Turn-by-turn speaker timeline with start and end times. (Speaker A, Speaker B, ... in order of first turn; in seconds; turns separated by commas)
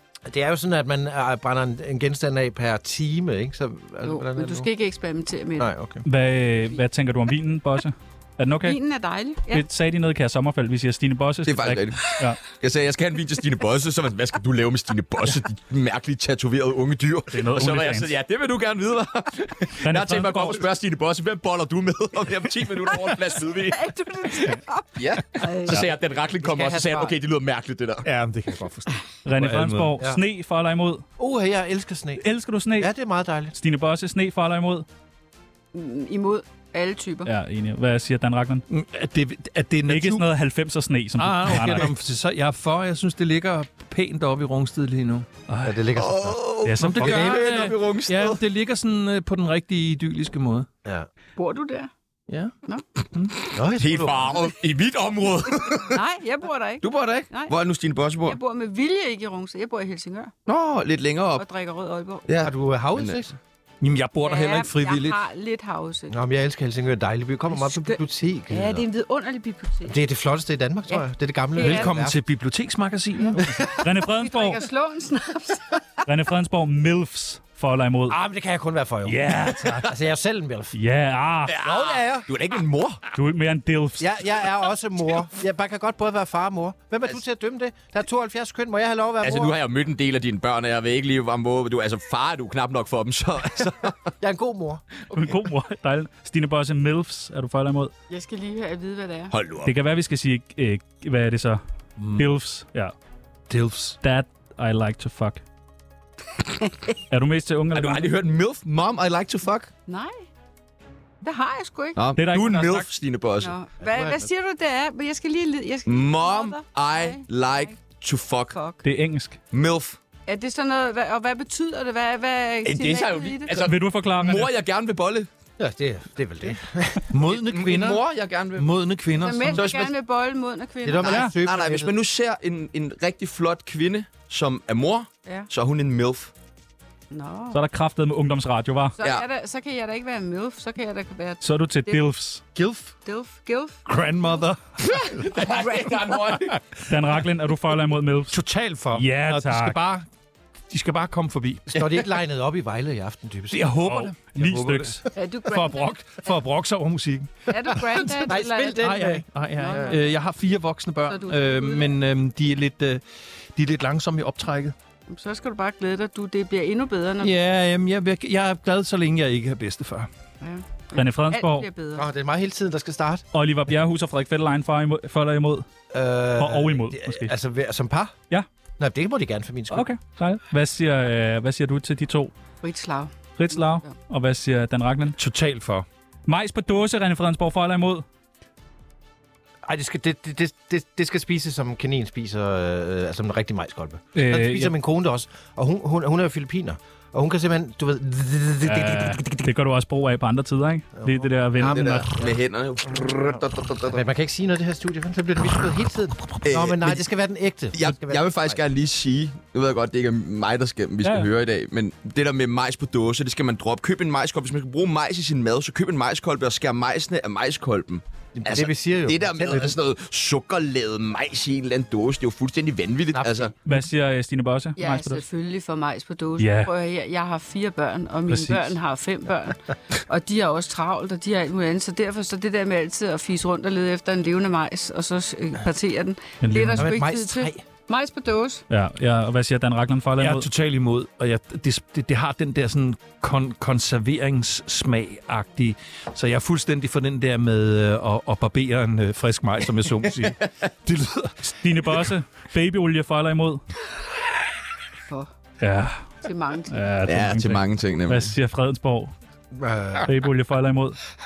Speaker A: 0.3-4.7, Speaker B: 4.0-5.7, Speaker A: 5.6-6.0, Speaker C: 6.0-8.8, Speaker B: 8.6-9.7, Speaker C: 9.5-12.4, Speaker D: 11.4-24.3, Speaker C: 17.3-18.1, Speaker C: 19.8-20.6, Speaker B: 23.7-25.8, Speaker D: 24.9-28.1, Speaker A: 26.4-27.1, Speaker E: 28.0-30.0, Speaker C: 29.2-31.0, Speaker A: 31.2-32.2, Speaker C: 32.2-32.9, Speaker A: 32.8-33.5, Speaker C: 33.5-34.9, Speaker B: 35.7-37.3, Speaker C: 37.2-38.6, Speaker E: 38.7-40.2, Speaker C: 39.9-41.9, Speaker E: 41.2-45.8, Speaker A: 45.6-47.7, Speaker D: 45.9-48.4, Speaker C: 46.6-47.2, Speaker E: 46.8-50.7, Speaker B: 51.4-51.9, Speaker E: 53.1-53.4, Speaker A: 53.5-54.5, Speaker D: 53.7-56.0, Speaker B: 55.9-57.5, Speaker D: 56.8-58.4, Speaker B: 58.2-60.3, Speaker D: 60.5-61.4, Speaker B: 61.4-62.2, Speaker D: 62.3-63.2, Speaker A: 62.4-63.3, Speaker E: 63.8-65.2, Speaker B: 64.2-66.1, Speaker A: 66.1-68.8, Speaker B: 67.5-70.0, Speaker A: 69.9-72.2, Speaker B: 70.9-71.9, Speaker E: 71.6-73.4, Speaker B: 73.2-75.8, Speaker C: 73.8-74.6, Speaker C: 76.0-78.2, Speaker A: 78.1-80.7, Speaker C: 79.0-79.9, Speaker C: 80.7-81.6, Speaker D: 81.5-83.0, Speaker A: 81.6-82.3, Speaker C: 83.1-84.1, Speaker A: 84.0-89.5, Speaker D: 89.2-94.1, Speaker A: 94.2-94.8, Speaker C: 95.1-97.9, Speaker B: 98.1-99.3, Speaker D: 99.3-99.8, Speaker C: 99.6-101.6, Speaker E: 102.0-102.2, Speaker C: 102.2-102.9, Speaker E: 103.5-104.0, Speaker C: 104.0-105.4, Speaker B: 106.6-106.9, Speaker C: 107.1-108.1, Speaker D: 107.7-109.7, Speaker B: 109.9-110.2, Speaker B: 111.2-112.0, Speaker D: 111.9-113.5, Speaker C: 112.2-112.9, Speaker B: 113.4-117.8, Speaker A: 113.8-114.3, Speaker D: 115.8-118.6, Speaker B: 118.5-118.8, Speaker C: 118.8-119.4, Speaker D: 119.5-120.0, Speaker B: 120.3-123.6, Speaker D: 122.6-125.3, Speaker C: 123.6-124.5, Speaker A: 125.6-127.1, Speaker E: 127.1-128.0, Speaker D: 127.3-128.7, Speaker E: 128.5-129.6, Speaker B: 129.2-131.2, Speaker D: 129.5-129.9, Speaker A: 130.8-131.9, Speaker D: 131.0-136.3, Speaker C: 131.1-131.3, Speaker B: 137.1-137.6, Speaker C: 137.5-138.9, Speaker B: 139.0-142.0, Speaker C: 141.4-142.4, Speaker E: 142.5-142.9, Speaker B: 143.0-146.0, Speaker E: 143.8-145.4, Speaker D: 145.2-146.6, Speaker C: 146.9-148.4, Speaker E: 148.3-150.1, Speaker C: 148.9-149.8, Speaker E: 150.7-151.7, Speaker A: 151.7-154.5, Speaker E: 153.5-158.2, Speaker C: 154.0-155.0, Speaker B: 155.1-156.0, Speaker B: 157.5-159.0, Speaker A: 158.2-159.9, Speaker E: 158.8-163.0, Speaker B: 159.6-160.0, Speaker B: 161.1-162.0, Speaker E: 163.5-164.7, Speaker B: 165.1-167.3, Speaker E: 167.2-170.1, Speaker B: 170.4-172.1, Speaker C: 170.9-171.7, Speaker A: 171.9-173.2, Speaker C: 173.3-175.6, Speaker A: 175.9-178.1, Speaker C: 176.4-177.3, Speaker A: 178.8-179.9, Speaker C: 179.7-182.3, Speaker B: 182.6-183.9, Speaker C: 183.4-185.2, Speaker E: 185.2-185.8, Speaker C: 186.3-188.0, Speaker A: 189.6-199.5, Speaker C: 194.1-194.7, Speaker C: 198.6-202.1, Speaker A: 201.0-202.4, Speaker D: 201.6-204.0, Speaker A: 203.3-208.6, Speaker D: 206.4-207.1, Speaker D: 207.7-223.5, Speaker C: 211.0-211.3, Speaker A: 218.3-219.7, Speaker A: 223.1-223.5, Speaker C: 223.7-225.2, Speaker B: 224.8-238.6, Speaker C: 226.4-226.7, Speaker C: 228.3-228.7, Speaker C: 236.4-236.9, Speaker A: 236.7-237.6, Speaker C: 238.7-240.5, Speaker E: 240.2-251.4, Speaker C: 251.4-253.6, Speaker C: 255.6-256.1, Speaker B: 256.2-256.8, Speaker C: 256.7-259.1, Speaker D: 257.0-258.3, Speaker A: 259.5-260.1, Speaker C: 260.0-261.0